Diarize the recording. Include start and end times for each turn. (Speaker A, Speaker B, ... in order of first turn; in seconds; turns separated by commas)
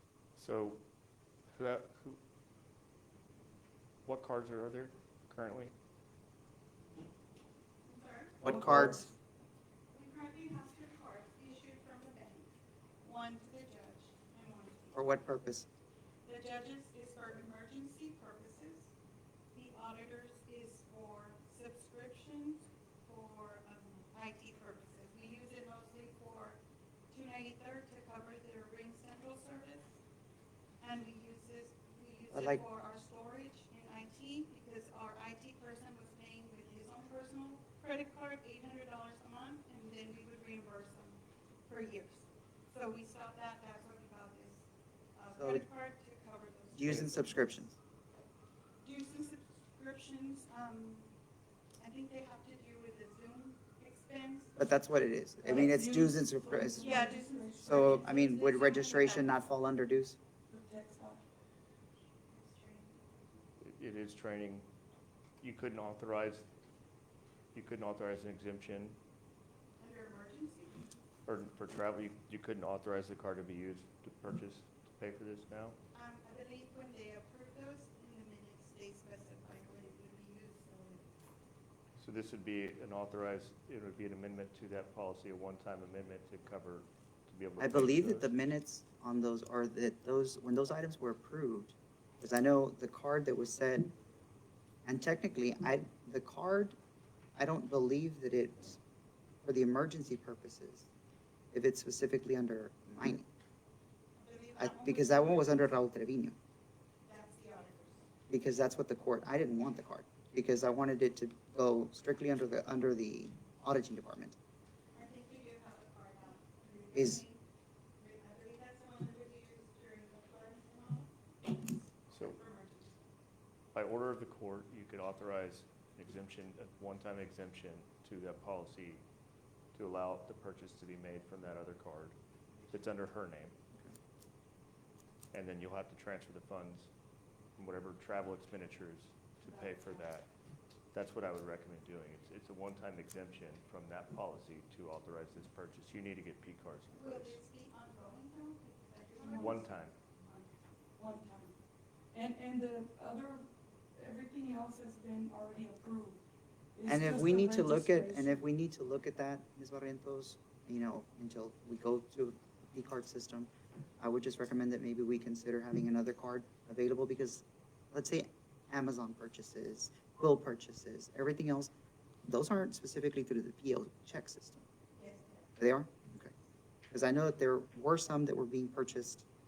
Speaker A: 0.4-0.8, Speaker A: 1.5-2.2, Speaker A: 4.0-5.7, Speaker B: 7.8-8.4, Speaker C: 8.4-9.1, Speaker D: 8.4-9.0, Speaker B: 9.9-12.5, Speaker B: 13.0-15.1, Speaker C: 14.9-15.7, Speaker B: 16.2-18.9, Speaker B: 19.5-26.6, Speaker B: 27.1-29.9, Speaker B: 30.8-44.6, Speaker C: 32.3-32.6, Speaker B: 45.1-47.4, Speaker C: 45.4-45.6, Speaker C: 46.7-47.8, Speaker B: 48.8-51.1, Speaker B: 51.8-54.5, Speaker C: 54.6-57.0, Speaker D: 55.4-58.0, Speaker B: 56.8-59.4, Speaker C: 57.6-60.2, Speaker D: 60.5-61.2, Speaker B: 62.3-63.2, Speaker A: 63.6-64.7, Speaker A: 65.4-66.5, Speaker A: 67.5-69.0, Speaker B: 69.8-70.8, Speaker A: 71.3-75.8, Speaker B: 75.9-81.0, Speaker A: 82.0-88.3, Speaker C: 87.6-93.9, Speaker C: 94.8-96.8, Speaker C: 97.3-98.8, Speaker C: 99.4-100.9, Speaker C: 101.5-103.3, Speaker B: 104.2-105.7, Speaker C: 104.6-106.3, Speaker B: 107.0-108.1, Speaker C: 108.3-114.3, Speaker B: 114.9-117.4, Speaker C: 116.9-117.2, Speaker B: 118.0-123.0, Speaker A: 123.7-129.0, Speaker A: 129.7-132.2, Speaker A: 132.7-133.6, Speaker A: 135.3-136.9, Speaker A: 137.6-140.3, Speaker D: 139.5-139.8, Speaker A: 140.9-147.4, Speaker B: 146.9-150.5, Speaker D: 149.2-149.6, Speaker A: 149.3-149.9, Speaker D: 151.0-151.5, Speaker D: 152.1-156.2, Speaker D: 156.7-158.4, Speaker C: 156.8-171.7, Speaker C: 172.2-174.6, Speaker B: 174.9-175.5, Speaker C: 175.6-176.3, Speaker C: 176.9-179.2